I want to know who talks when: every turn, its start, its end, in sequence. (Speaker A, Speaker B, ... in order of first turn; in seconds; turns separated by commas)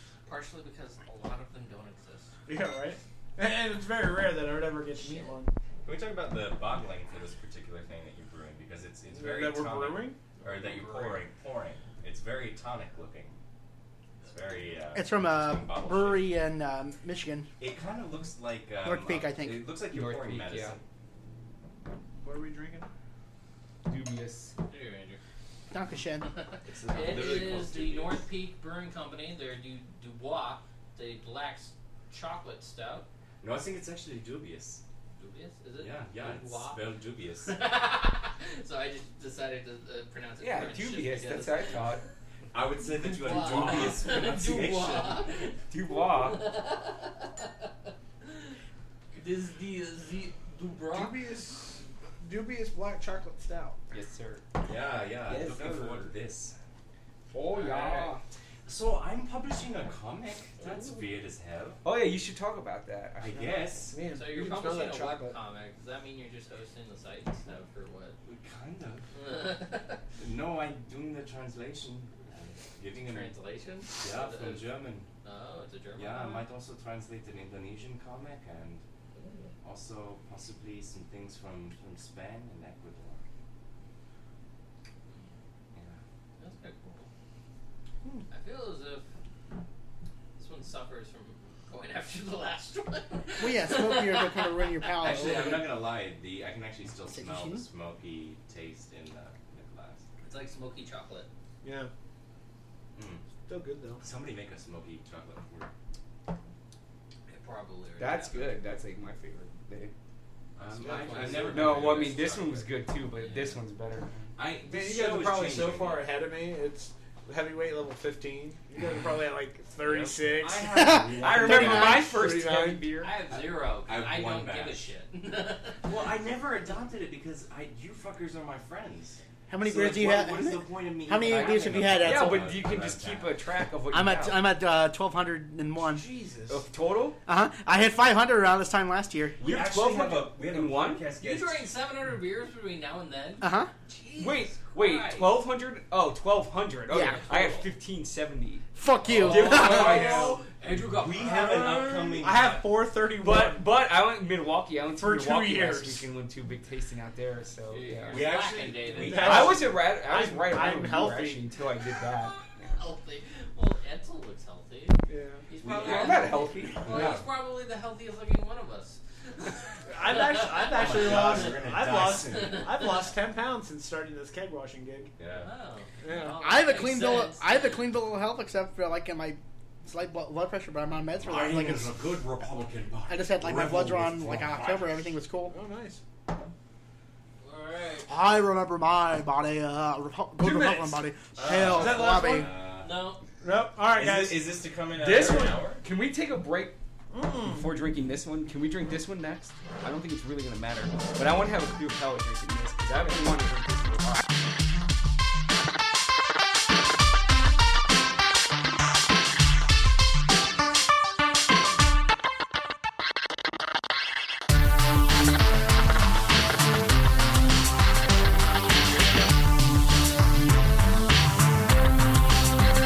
Speaker A: 0.2-2.3, Speaker B: 2.5-5.5, Speaker C: 5.8-13.4, Speaker B: 9.1-10.2, Speaker A: 10.4-11.2, Speaker C: 14.2-16.3, Speaker D: 14.9-17.5, Speaker C: 17.6-20.8, Speaker D: 18.8-19.7, Speaker E: 19.9-20.8, Speaker B: 22.2-22.9, Speaker E: 23.9-24.6, Speaker A: 24.6-25.2, Speaker D: 25.7-26.3, Speaker A: 26.4-33.1, Speaker C: 26.6-28.2, Speaker C: 33.4-34.8, Speaker A: 35.2-36.8, Speaker C: 35.8-37.6, Speaker A: 37.5-41.9, Speaker E: 40.4-42.0, Speaker C: 42.5-45.4, Speaker A: 43.0-47.6, Speaker E: 45.7-46.5, Speaker A: 49.1-51.2, Speaker B: 50.9-53.8, Speaker E: 53.9-54.4, Speaker C: 54.6-56.5, Speaker E: 55.2-56.1, Speaker E: 57.3-58.2, Speaker A: 57.5-58.1, Speaker C: 58.6-61.8, Speaker E: 61.8-63.6, Speaker C: 63.2-64.0, Speaker B: 63.9-65.3, Speaker A: 64.1-68.2, Speaker C: 68.2-69.1, Speaker A: 69.1-70.0, Speaker C: 70.2-73.3, Speaker A: 72.3-76.5, Speaker C: 74.0-75.1, Speaker C: 76.0-78.8, Speaker A: 79.1-79.5, Speaker C: 79.6-83.2, Speaker C: 85.7-86.0, Speaker A: 86.4-87.1, Speaker A: 88.3-89.0, Speaker A: 90.4-95.7, Speaker D: 93.4-95.7, Speaker C: 95.0-100.0, Speaker D: 97.1-97.6, Speaker A: 100.2-101.3, Speaker B: 101.6-101.9, Speaker C: 102.9-103.2, Speaker B: 103.5-104.0, Speaker C: 104.0-105.7, Speaker A: 107.3-108.6, Speaker E: 108.0-109.9, Speaker C: 110.5-112.7, Speaker B: 110.8-111.7, Speaker A: 110.8-112.2, Speaker E: 111.2-114.1, Speaker A: 113.2-113.6, Speaker C: 114.3-116.1, Speaker B: 114.7-122.9, Speaker C: 119.8-122.0, Speaker D: 120.7-122.1, Speaker E: 121.2-123.2, Speaker A: 123.0-125.8, Speaker C: 123.8-124.8, Speaker C: 125.8-133.3, Speaker D: 129.5-132.6, Speaker E: 131.2-134.4, Speaker D: 133.9-136.0, Speaker B: 135.8-136.6, Speaker E: 136.5-137.2, Speaker D: 137.2-139.4, Speaker E: 139.4-141.1, Speaker C: 139.4-141.7, Speaker A: 141.2-145.3, Speaker D: 143.4-143.7, Speaker E: 144.2-148.7, Speaker D: 146.9-147.2, Speaker A: 146.9-147.7, Speaker D: 148.7-150.1, Speaker C: 149.1-152.7, Speaker A: 149.2-152.2, Speaker E: 149.2-150.4, Speaker B: 149.4-150.4, Speaker B: 152.2-153.7, Speaker E: 153.2-158.3, Speaker B: 154.9-156.1, Speaker A: 157.7-159.6, Speaker C: 158.1-159.6, Speaker E: 158.9-162.8, Speaker B: 159.0-161.4, Speaker A: 162.8-171.5, Speaker B: 165.1-165.4, Speaker C: 165.6-167.2, Speaker E: 165.8-167.2, Speaker B: 169.9-175.1, Speaker C: 170.7-172.7, Speaker A: 172.2-173.1, Speaker C: 175.2-175.5, Speaker A: 175.3-177.7, Speaker B: 176.0-176.4, Speaker D: 176.4-181.9, Speaker C: 181.2-185.0, Speaker D: 183.1-185.5, Speaker B: 185.5-186.0, Speaker A: 187.4-188.1, Speaker D: 188.1-192.5, Speaker B: 190.4-192.6, Speaker C: 191.3-193.0, Speaker A: 192.8-193.2, Speaker B: 193.4-194.5, Speaker C: 193.9-195.8, Speaker B: 195.0-195.6, Speaker E: 195.0-196.8, Speaker B: 197.1-197.7, Speaker E: 197.4-204.2